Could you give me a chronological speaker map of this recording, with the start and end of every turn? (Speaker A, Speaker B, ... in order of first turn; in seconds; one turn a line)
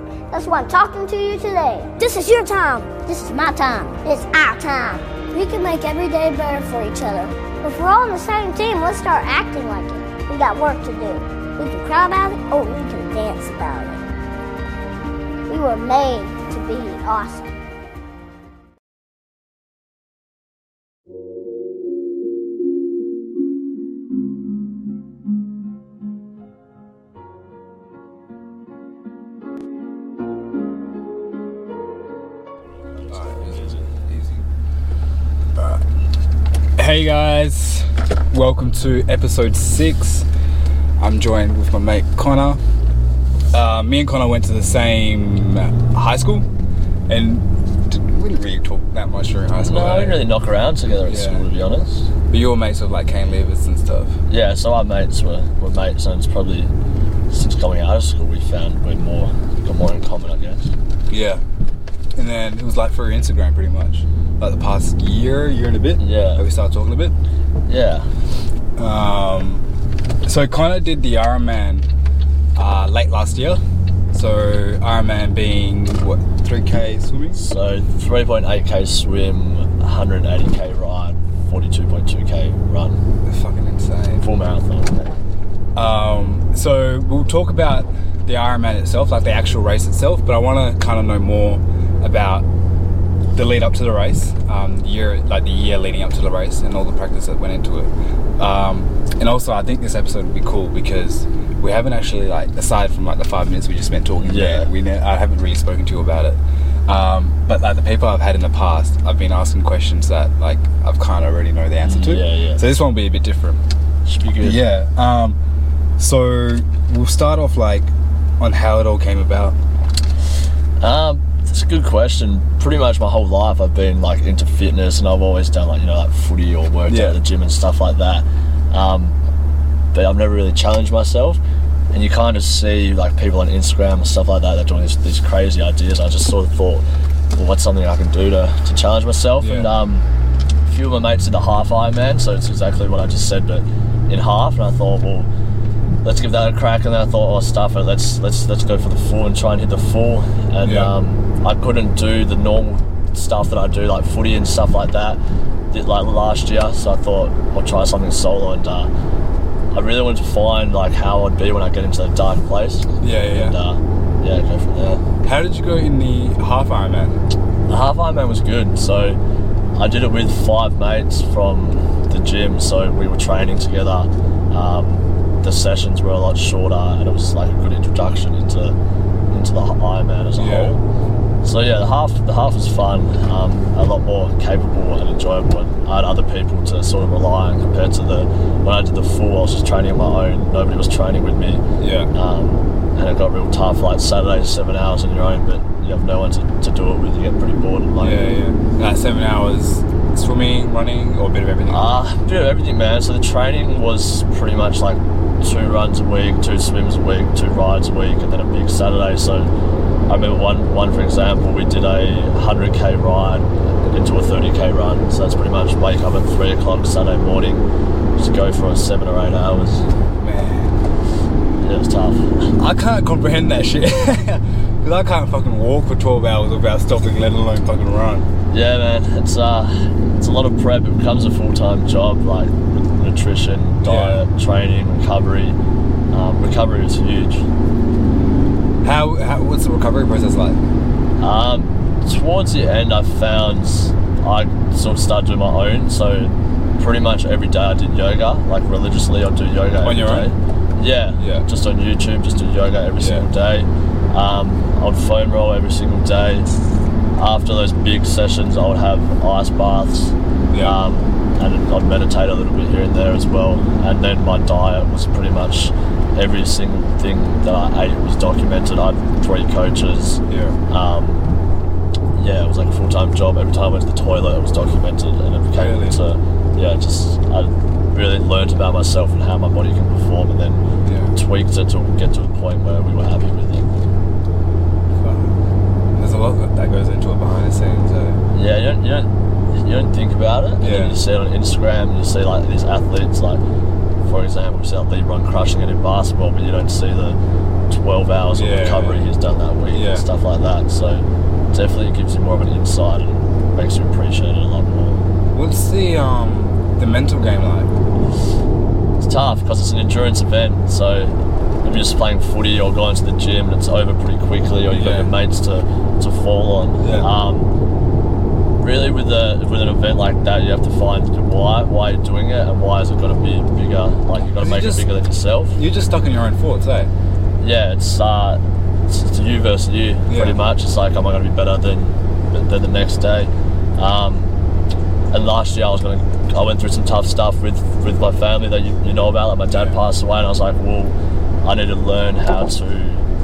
Speaker A: 0.3-14.0
Speaker A: 15.5-17.5
Speaker B: 33.1-34.4
Speaker B: 35.6-35.8
Speaker B: 36.8-40.3
Speaker B: 41.0-42.6
Speaker B: 43.5-46.5
Speaker B: 47.1-50.2
Speaker C: 49.6-52.1
Speaker B: 51.0-51.4
Speaker B: 52.3-54.2
Speaker C: 54.3-56.7
Speaker C: 57.3-60.7
Speaker B: 61.1-61.4
Speaker B: 62.1-67.1
Speaker C: 66.0-66.4
Speaker C: 67.7-68.1
Speaker B: 68.8-69.6
Speaker B: 70.2-71.9
Speaker B: 72.5-73.6
Speaker B: 74.1-77.5
Speaker C: 77.3-83.0
Speaker B: 83.3-84.2
Speaker C: 84.2-85.1
Speaker B: 85.8-92.5
Speaker B: 93.3-113.6
Speaker C: 104.2-104.7
Speaker C: 111.8-112.6
Speaker C: 114.0-114.6
Speaker B: 114.4-115.4
Speaker B: 116.0-119.6
Speaker C: 120.8-129.2
Speaker B: 126.9-127.2
Speaker C: 129.9-131.4
Speaker C: 131.9-140.1
Speaker B: 139.4-139.7
Speaker C: 140.7-145.3
Speaker C: 146.0-155.2
Speaker B: 150.6-150.9
Speaker C: 155.7-158.9
Speaker C: 159.7-165.0
Speaker B: 163.0-163.6
Speaker B: 165.2-167.2
Speaker C: 167.7-169.2
Speaker C: 169.7-178.8
Speaker C: 179.3-180.8
Speaker B: 180.4-180.8
Speaker C: 181.4-198.3
Speaker B: 191.8-192.1
Speaker B: 198.0-201.9
Speaker C: 201.7-209.5
Speaker C: 210.1-217.6
Speaker C: 218.2-219.8
Speaker B: 220.2-220.8
Speaker C: 221.6-222.6
Speaker B: 222.6-228.3
Speaker C: 228.5-235.6
Speaker B: 233.8-234.2
Speaker C: 236.1-237.5
Speaker B: 238.8-240.6
Speaker C: 241.2-256.5
Speaker B: 249.8-250.3
Speaker B: 251.2-251.4
Speaker B: 253.0-253.3
Speaker C: 257.1-271.2
Speaker B: 260.5-260.8
Speaker B: 270.3-270.6
Speaker C: 272.1-283.7
Speaker B: 275.6-276.0
Speaker B: 280.8-281.1
Speaker B: 284.9-285.4
Speaker B: 285.9-288.2
Speaker C: 288.3-293.4
Speaker B: 290.6-291.0
Speaker C: 294.0-297.2
Speaker C: 297.7-305.0
Speaker B: 298.3-299.1
Speaker B: 299.7-300.1
Speaker B: 305.3-307.7
Speaker C: 309.0-317.5
Speaker B: 314.7-315.1
Speaker B: 316.8-317.1
Speaker C: 318.6-325.6
Speaker B: 324.2-324.9
Speaker B: 325.5-326.9
Speaker C: 327.4-334.3
Speaker B: 330.1-330.4
Speaker C: 335.1-343.0
Speaker B: 339.5-339.8